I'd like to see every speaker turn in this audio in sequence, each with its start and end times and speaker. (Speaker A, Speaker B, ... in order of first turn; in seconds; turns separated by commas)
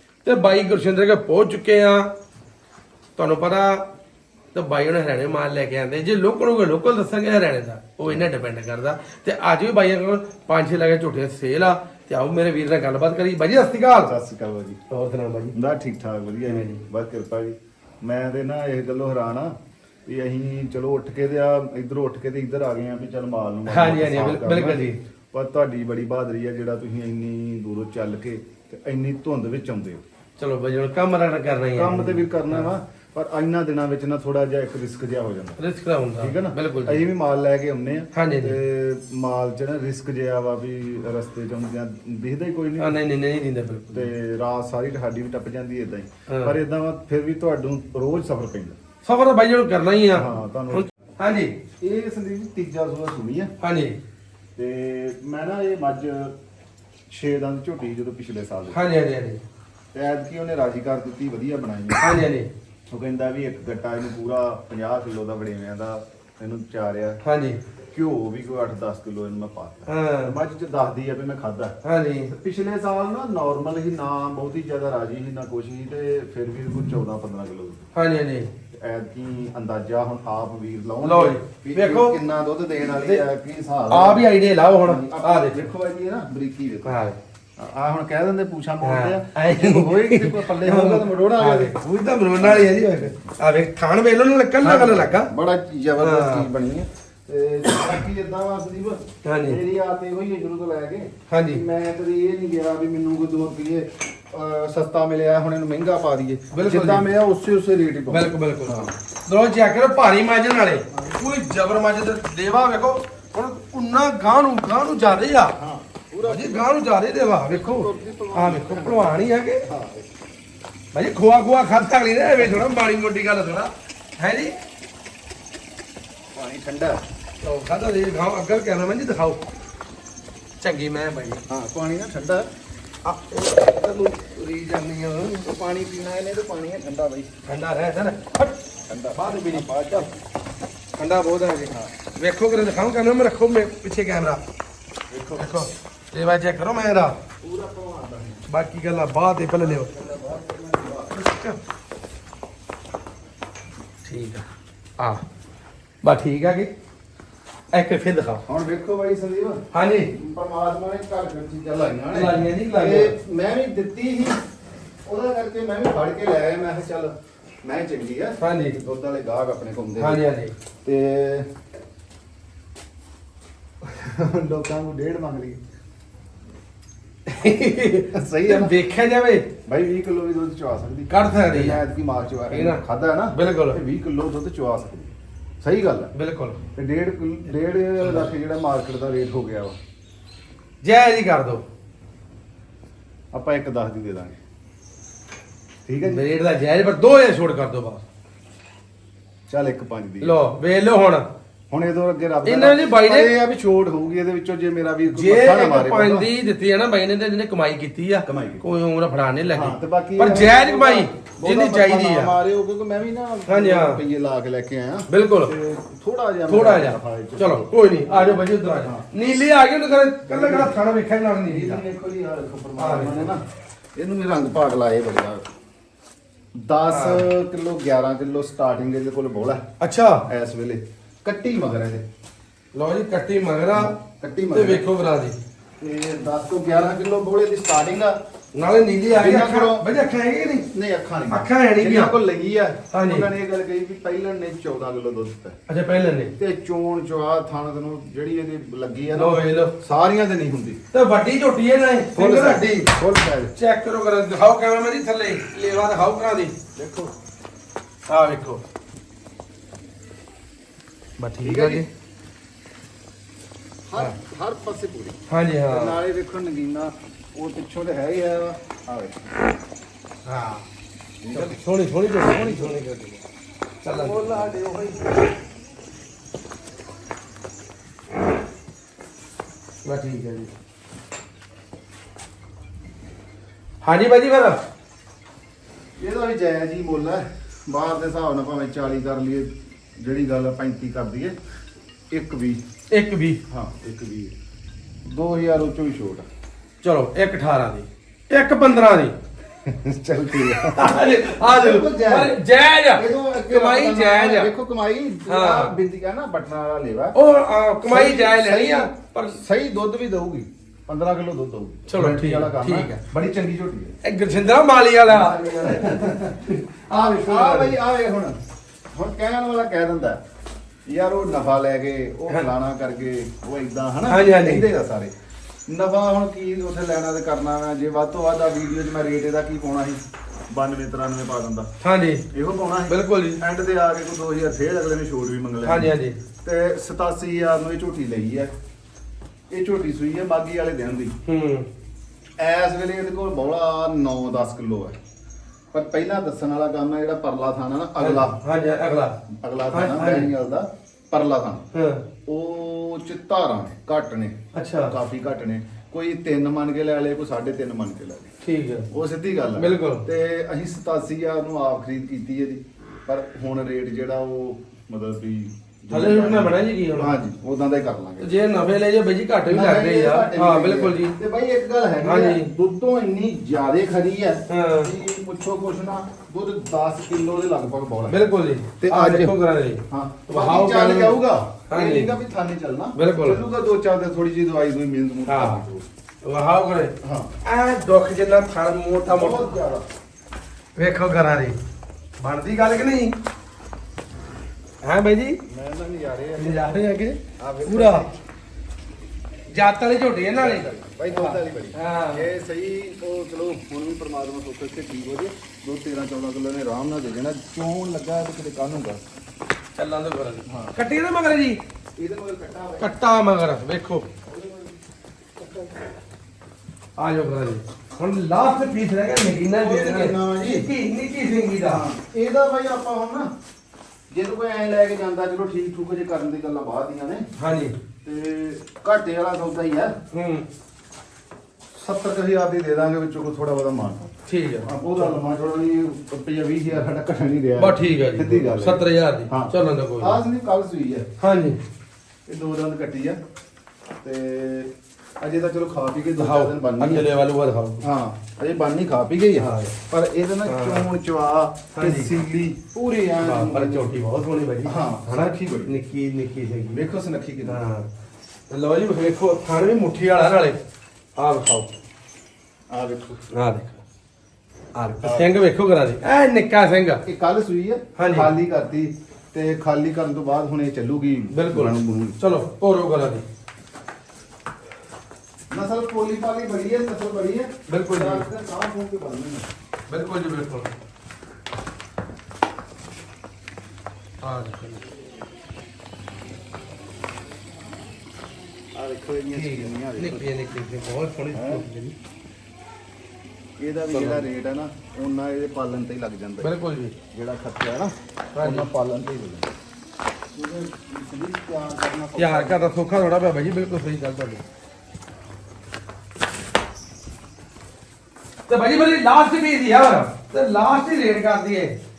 Speaker A: 0.2-2.1, Speaker A: 3.2-3.9, Speaker A: 4.5-14.2, Speaker B: 14.0-14.8, Speaker A: 14.9-15.5, Speaker B: 15.5-19.5, Speaker A: 16.4-16.8, Speaker B: 20.1-30.0, Speaker A: 23.7-25.0, Speaker A: 30.4-32.7, Speaker B: 31.8-35.6, Speaker A: 35.6-37.0, Speaker B: 36.2-43.0, Speaker A: 38.1-38.6, Speaker A: 42.8-44.1, Speaker B: 43.9-48.8, Speaker A: 46.3-46.6, Speaker A: 49.0-51.5, Speaker B: 50.1-50.9, Speaker B: 51.8-53.5, Speaker A: 53.6-54.0, Speaker B: 54.6-56.3, Speaker B: 57.1-58.8, Speaker A: 58.7-59.4, Speaker B: 59.9-62.1, Speaker A: 62.0-62.5, Speaker B: 62.9-67.2, Speaker A: 67.2-67.6, Speaker B: 67.9-71.8, Speaker A: 69.9-70.3, Speaker A: 71.8-72.3, Speaker B: 72.3-77.9, Speaker A: 78.0-78.5, Speaker B: 78.7-84.3, Speaker A: 81.0-82.2, Speaker A: 82.9-83.2, Speaker A: 83.9-85.7, Speaker B: 84.8-87.0, Speaker A: 86.8-87.2, Speaker B: 87.6-91.7, Speaker A: 88.8-95.3, Speaker B: 92.4-93.1, Speaker B: 94.6-108.9, Speaker A: 96.0-96.5, Speaker A: 99.2-99.6, Speaker A: 101.3-101.6, Speaker A: 106.5-107.1, Speaker A: 108.1-115.6, Speaker B: 111.0-111.2, Speaker B: 115.5-116.7, Speaker A: 116.2-119.7, Speaker B: 117.5-120.1, Speaker A: 120.9-124.6, Speaker B: 122.4-122.7, Speaker B: 126.3-127.0, Speaker A: 127.4-129.4, Speaker A: 130.6-131.4, Speaker B: 131.5-132.5, Speaker A: 133.1-135.5, Speaker B: 135.4-137.3, Speaker A: 137.5-138.6, Speaker B: 138.9-140.1, Speaker A: 139.2-140.0, Speaker A: 141.0-144.4, Speaker B: 145.1-145.7, Speaker A: 145.4-147.2, Speaker B: 147.4-148.5, Speaker A: 148.5-149.9, Speaker B: 149.5-151.2, Speaker A: 151.1-151.6, Speaker A: 154.1-154.4, Speaker A: 156.0-156.7, Speaker A: 157.7-158.4, Speaker B: 158.5-164.4, Speaker A: 159.7-160.1, Speaker A: 162.1-163.2, Speaker B: 165.1-170.2, Speaker A: 168.4-168.8, Speaker A: 170.0-170.5, Speaker B: 170.8-171.5, Speaker B: 173.8-175.6, Speaker A: 177.3-179.5, Speaker B: 178.1-178.8, Speaker B: 179.7-186.1, Speaker A: 181.1-181.8, Speaker A: 182.5-182.8, Speaker A: 183.3-183.8, Speaker A: 186.2-186.6, Speaker B: 186.8-189.8, Speaker A: 188.0-188.3, Speaker A: 190.8-191.6, Speaker B: 193.3-194.4, Speaker B: 195.9-196.2, Speaker A: 196.0-198.0, Speaker B: 199.5-200.4, Speaker A: 200.2-201.2, Speaker B: 201.7-206.3, Speaker A: 202.4-203.3, Speaker A: 205.1-212.3, Speaker B: 208.3-208.6, Speaker B: 209.5-219.1, Speaker A: 213.5-214.0, Speaker A: 215.1-215.5, Speaker A: 216.5-221.8, Speaker B: 220.3-220.8, Speaker B: 221.5-223.4, Speaker A: 222.8-223.3, Speaker B: 224.0-225.4, Speaker B: 226.6-229.6, Speaker A: 226.9-227.2, Speaker A: 229.8-230.3, Speaker B: 230.3-232.0, Speaker A: 232.7-234.0, Speaker B: 233.7-234.9, Speaker A: 234.5-235.3, Speaker B: 235.8-238.2, Speaker A: 238.6-240.7, Speaker B: 239.1-240.0, Speaker B: 240.7-245.6, Speaker A: 241.3-242.2, Speaker A: 242.9-243.3, Speaker A: 245.7-246.3, Speaker B: 246.4-250.8, Speaker A: 249.2-249.7, Speaker A: 250.9-252.9, Speaker B: 252.2-253.6, Speaker A: 253.6-256.5, Speaker B: 256.8-257.1, Speaker A: 258.1-258.6, Speaker A: 261.2-261.9, Speaker B: 261.4-261.9, Speaker B: 263.9-265.2, Speaker A: 265.3-266.0, Speaker B: 265.7-269.3, Speaker A: 270.3-270.6, Speaker B: 271.2-271.6, Speaker A: 271.3-273.2, Speaker B: 272.2-272.8, Speaker A: 273.8-274.6, Speaker B: 273.8-275.1, Speaker A: 279.8-280.5, Speaker A: 283.8-284.6, Speaker B: 286.0-291.4, Speaker B: 292.1-292.6, Speaker A: 292.9-293.4, Speaker B: 293.5-294.3, Speaker B: 295.1-296.3, Speaker A: 296.8-299.1, Speaker B: 299.6-302.4, Speaker A: 300.8-304.5, Speaker B: 302.9-307.2, Speaker A: 305.3-305.7, Speaker A: 307.1-309.4, Speaker B: 307.8-313.9, Speaker A: 311.9-313.0, Speaker A: 314.0-317.8, Speaker B: 315.1-318.4, Speaker B: 318.9-320.2, Speaker B: 320.9-325.1, Speaker A: 324.1-324.7, Speaker B: 325.7-330.0, Speaker B: 330.5-331.7, Speaker A: 331.8-332.2, Speaker B: 332.3-335.9, Speaker A: 332.9-333.4, Speaker A: 335.6-336.2, Speaker B: 336.4-338.5, Speaker B: 339.5-341.1, Speaker A: 341.3-341.7, Speaker B: 342.4-344.9, Speaker B: 345.7-348.4, Speaker A: 348.0-349.1, Speaker B: 349.4-351.6, Speaker A: 349.7-350.3, Speaker A: 351.7-352.0, Speaker B: 352.3-354.3, Speaker A: 354.5-354.9, Speaker B: 354.9-358.3, Speaker A: 358.4-358.9, Speaker B: 358.9-368.3, Speaker A: 359.6-360.1, Speaker A: 365.9-367.1, Speaker A: 368.2-371.1, Speaker B: 369.5-378.2, Speaker A: 372.0-372.5, Speaker A: 374.5-374.9, Speaker A: 378.1-382.1, Speaker B: 378.8-379.4, Speaker B: 379.9-385.9, Speaker A: 383.0-383.4, Speaker A: 385.3-385.6, Speaker A: 386.2-389.6, Speaker B: 387.0-387.3, Speaker B: 389.1-389.9, Speaker A: 390.8-391.6, Speaker A: 392.2-393.1, Speaker A: 394.8-395.4, Speaker B: 395.5-396.9, Speaker A: 396.4-398.1, Speaker B: 397.4-398.2, Speaker A: 399.5-402.3, Speaker B: 400.4-409.0, Speaker A: 409.8-411.6, Speaker B: 410.5-410.8, Speaker B: 412.0-413.0, Speaker A: 412.8-414.1, Speaker B: 414.2-414.7, Speaker B: 415.4-415.7, Speaker A: 417.0-421.8, Speaker B: 419.6-420.7, Speaker B: 421.6-423.3, Speaker B: 424.1-427.3, Speaker A: 427.4-427.8, Speaker B: 428.0-429.9, Speaker A: 430.1-430.5, Speaker B: 431.7-434.1, Speaker A: 434.3-435.1, Speaker B: 434.6-441.1, Speaker A: 437.6-440.2, Speaker A: 441.2-441.6, Speaker B: 442.3-443.2, Speaker B: 444.0-447.1, Speaker A: 446.2-447.8, Speaker B: 447.8-454.0, Speaker A: 449.4-449.7, Speaker A: 450.5-450.9, Speaker A: 451.7-452.1, Speaker A: 453.2-456.8, Speaker B: 454.6-455.8, Speaker B: 456.7-457.6, Speaker A: 457.5-457.9, Speaker A: 458.5-460.6, Speaker A: 461.2-461.7, Speaker B: 462.7-463.2, Speaker A: 463.3-463.8, Speaker A: 464.8-467.0, Speaker B: 465.0-465.4, Speaker B: 467.1-472.2, Speaker A: 468.0-468.3, Speaker A: 471.3-473.2, Speaker B: 475.5-479.5, Speaker A: 477.7-478.3, Speaker A: 479.9-480.7, Speaker A: 484.2-484.8, Speaker B: 488.7-490.3, Speaker A: 489.3-491.9, Speaker B: 491.3-491.7, Speaker B: 493.6-496.5, Speaker A: 493.9-494.3, Speaker A: 496.4-496.9, Speaker B: 497.1-499.5, Speaker A: 498.4-498.7, Speaker B: 500.4-502.7, Speaker A: 502.2-504.4, Speaker A: 508.5-511.8